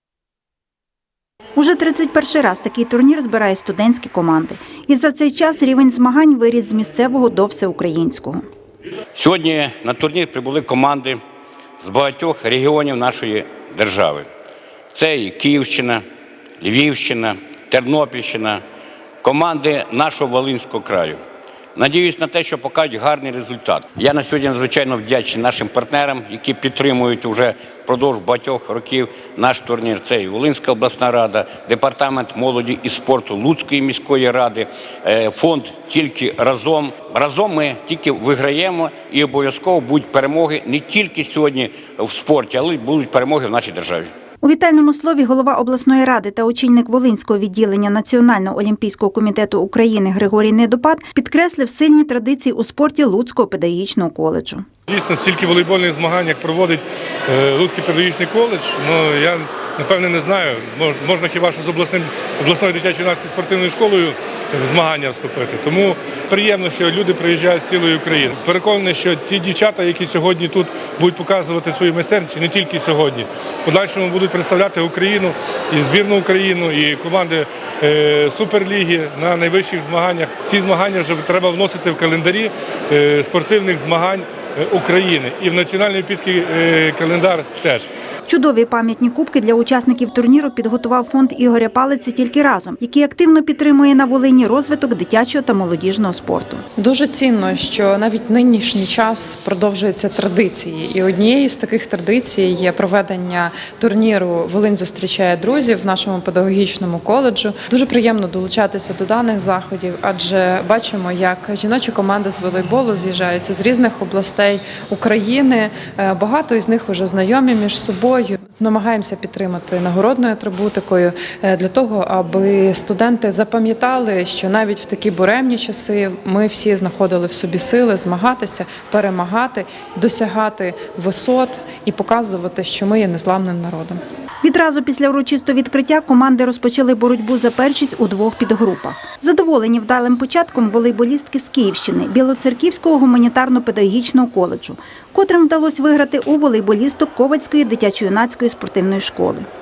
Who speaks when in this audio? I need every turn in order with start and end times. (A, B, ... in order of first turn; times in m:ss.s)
0:01.6-0:08.4 A
0:09.1-0:11.2 B
0:11.8-0:14.2 B
0:14.9-0:16.0 B
0:16.6-0:18.6 B
0:19.2-0:21.2 B
0:21.8-0:44.1 B
0:44.4-0:54.6 A
0:54.9-1:27.9 C
1:28.3-1:36.6 A
1:36.8-2:14.0 D
2:14.4-2:29.5 A